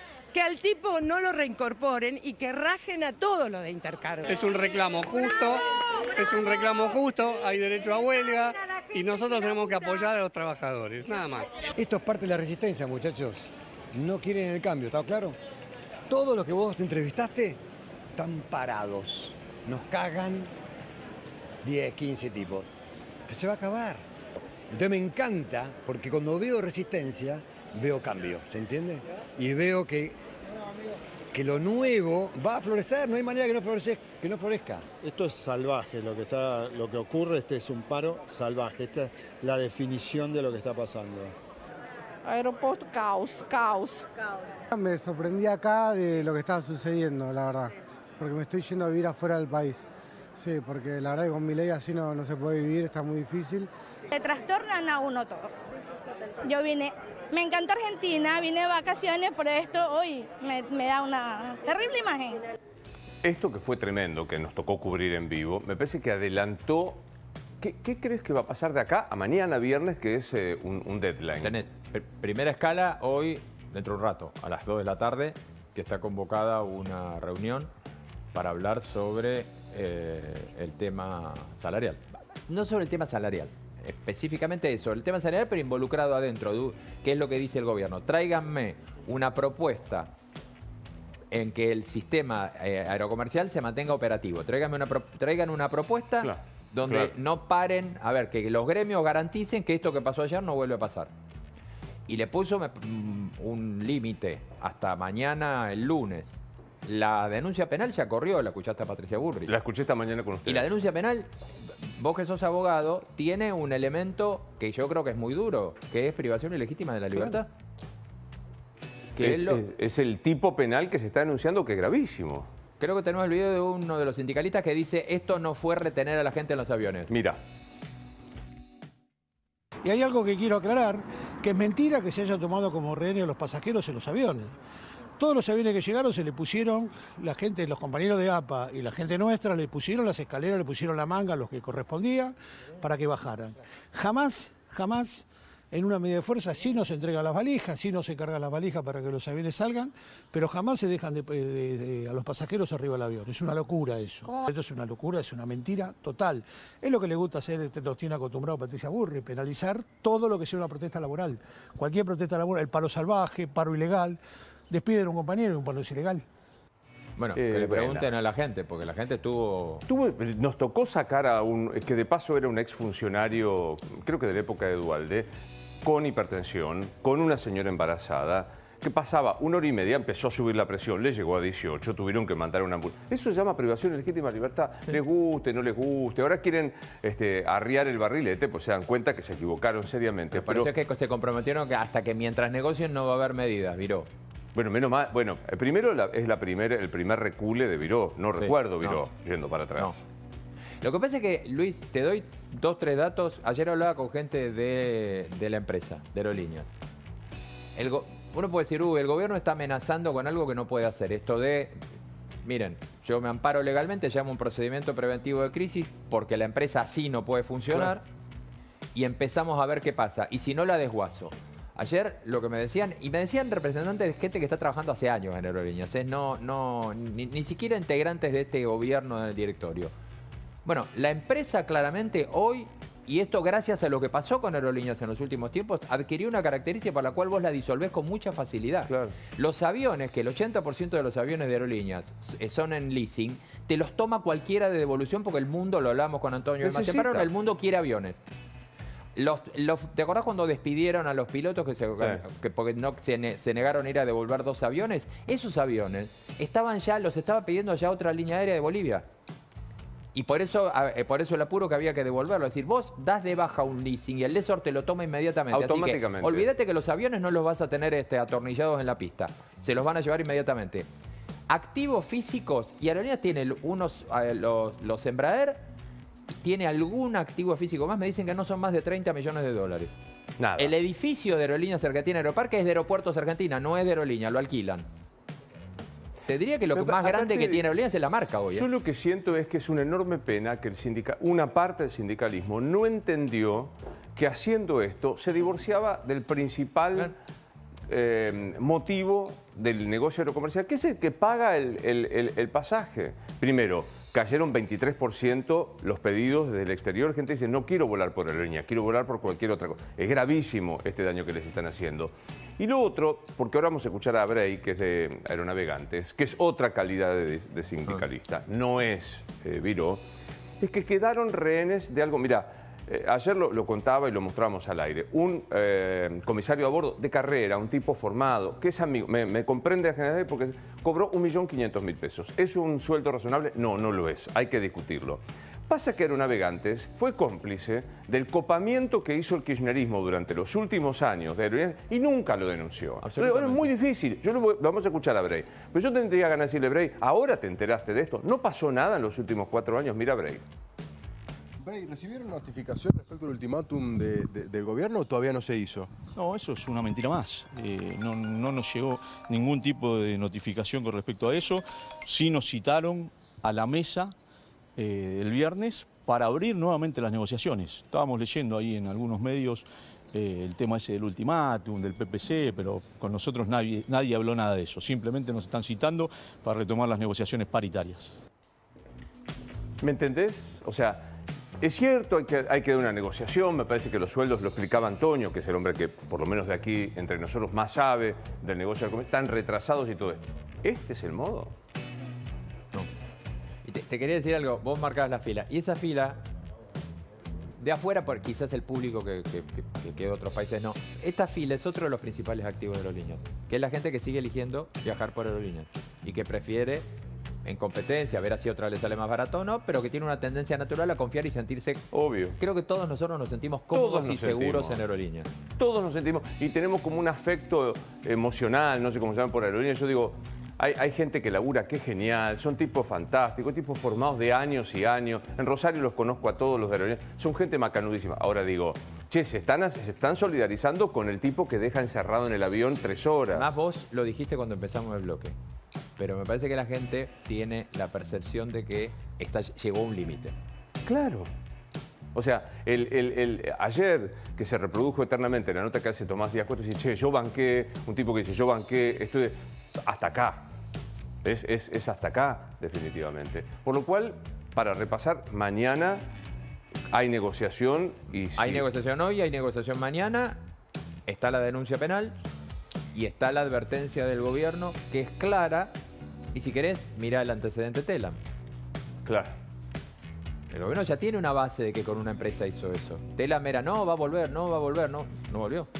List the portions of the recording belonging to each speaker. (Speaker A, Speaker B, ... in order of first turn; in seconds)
Speaker A: 0.3-4.6
Speaker B: 4.3-5.6, 6.2-11.6
Speaker C: 11.8-15.4, 16.1-17.6, 18.1-20.5, 21.6-22.7, 23.3-24.0, 24.7-30.2, 31.3-34.9
Speaker D: 35.0-41.4
Speaker E: 42.2-44.0, 54.1-55.5, 56.4-62.4
Speaker F: 44.7-49.8, 50.4-53.7
Speaker G: 63.2-67.0, 67.6-71.6, 96.2-97.1, 109.5-110.7, 117.1-117.4, 119.2-122.5, 127.1-127.4, 167.4-168.1, 169.9-175.3, 175.8-190.7, 194.6-200.0, 238.9-239.1, 246.6-247.3, 265.5-266.5, 280.4-280.8, 286.7-287.6, 288.5-297.1, 297.9-320.0, 320.6-350.4, 379.8-381.0, 381.6-391.6, 411.9-412.4, 413.7-414.8, 415.6-433.5, 440.9-441.3, 442.1-450.5, 451.2-456.1, 456.9-458.6, 469.1-469.3
Speaker H: 71.4-77.7, 78.3-90.1, 91.3-101.1, 102.1-109.5, 110.5-111.3, 111.8-117.5, 119.2-119.6, 122.8-127.1, 167.2-169.8, 190.3-194.1, 198.4-199.0, 200.8-206.7, 207.8-211.8, 212.4-218.1, 218.9-229.9, 230.7-248.2, 249.2-259.1, 260.1-270.9, 271.5-275.6, 276.4-279.9, 280.6-284.9, 286.3-288.6, 343.0-343.7, 393.6-396.2, 397.6-406.9, 407.4-411.8, 412.4-415.3, 433.3-435.4, 436.0-440.3, 458.4-460.4, 461.1-462.2, 462.9-465.7, 466.3-468.2, 470.5-475.7
Speaker I: 129.8-134.6, 135.2-164.2, 164.7-166.2
Speaker J: 351.6-355.9
Speaker K: 356.1-364.1, 364.8-378.1